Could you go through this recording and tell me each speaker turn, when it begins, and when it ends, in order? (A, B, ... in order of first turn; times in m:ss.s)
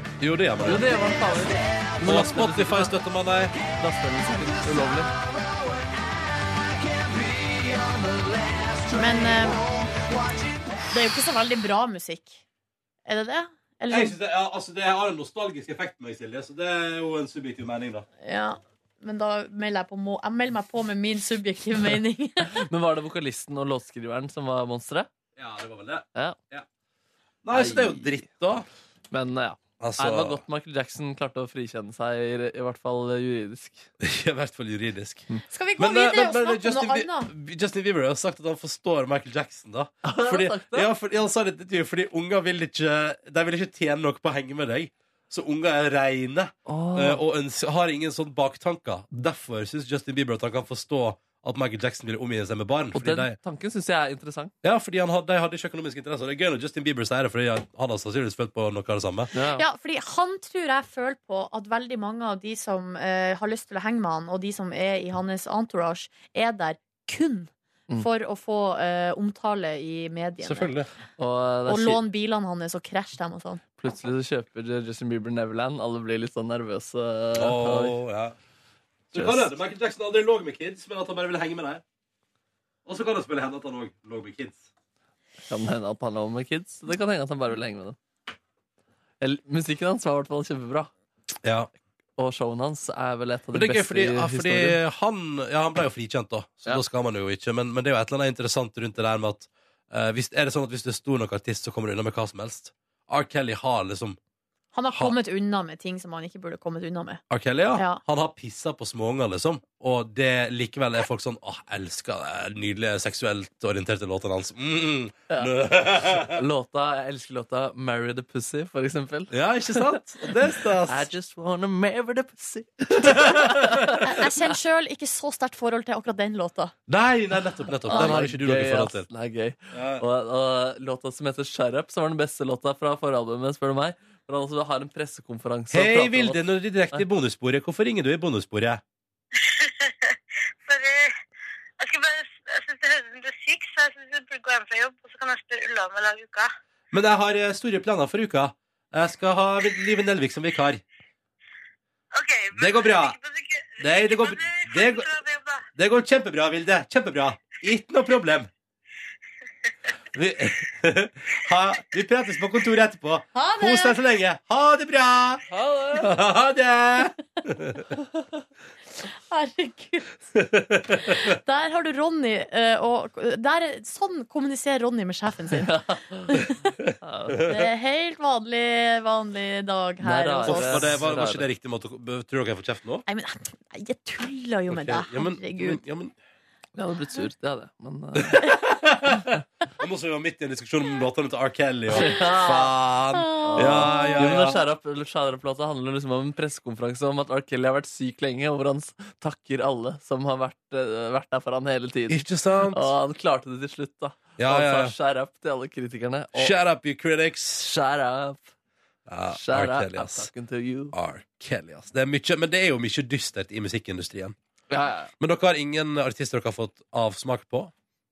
0:00.2-0:00.9 A
0:00.6-0:03.0 B
0:02.0-0:03.5 A
0:03.7-0:05.1 B
0:08.9-0:09.6 C
0:10.9-0:12.4 C
0:13.0-0:14.2 C
0:13.9-0:18.0 A
0:18.2-0:22.6 C
0:22.5-0:25.1 B
0:25.4-0:26.6 A
0:27.4-0:28.6 A
0:27.5-0:28.1 B
0:29.1-0:33.9 B
0:29.8-0:30.4 A
0:34.0-0:35.3 A
0:35.5-0:37.3 C
0:35.8-0:53.4 A
0:40.0-0:40.9 B
0:46.6-0:47.2 B
0:52.9-0:54.5 B
0:54.6-0:59.3 A
0:59.3-0:59.6 B
0:59.5-1:10.7 C
1:10.4-1:10.9 A
1:11.2-1:12.0 B
1:11.7-1:13.6 C
1:13.8-1:18.0 B
1:17.4-1:18.3 A
1:19.1-1:21.8 A
1:19.1-1:19.5 B
1:22.8-1:24.6 A
1:25.5-1:28.0 B
1:29.2-1:30.9 B
1:31.4-1:31.7 A
1:32.2-1:34.8 B
1:33.5-1:44.2 A
1:44.7-1:47.2 C
1:47.3-1:56.4 A
1:47.8-1:48.0 C
1:55.3-1:55.5 B
1:56.1-2:04.2 B
1:59.3-2:01.1 A
2:02.9-2:04.1 A
2:04.0-2:06.7 C
2:06.9-2:09.1 A
2:07.8-2:16.4 B
2:07.9-2:08.2 C
2:09.7-2:10.0 A
2:15.7-2:18.8 A
2:19.4-2:21.1 D
2:21.8-2:26.5 D
2:26.9-2:30.8 A
2:32.1-2:35.6 D
2:32.5-2:33.2 A
2:33.8-2:35.1 A
2:35.8-2:38.5 A
2:40.1-2:45.4 A
2:43.3-2:44.0 C
2:45.5-2:46.1 B
2:45.9-2:47.8 A
2:49.3-2:50.1 C
2:50.3-2:51.3 A
2:51.0-2:55.7 C
2:55.6-2:56.4 B
2:56.3-2:56.6 C
2:57.0-2:57.5 B
2:57.4-3:00.9 C
3:00.0-3:01.4 B
3:00.4-3:03.0 A
3:03.1-3:05.8 C
3:04.7-3:06.1 A
3:06.8-3:08.5 B
3:08.2-3:14.6 A
3:11.9-3:12.7 B
3:13.1-3:14.2 C
3:13.4-3:26.5 B
3:22.1-3:22.9 A
3:24.4-3:24.9 A
3:26.3-3:27.7 A
3:27.6-3:28.5 B
3:29.1-3:30.3 A
3:29.3-3:30.9 B
3:30.9-3:34.4 A
3:34.7-3:35.1 B
3:35.2-3:37.7 A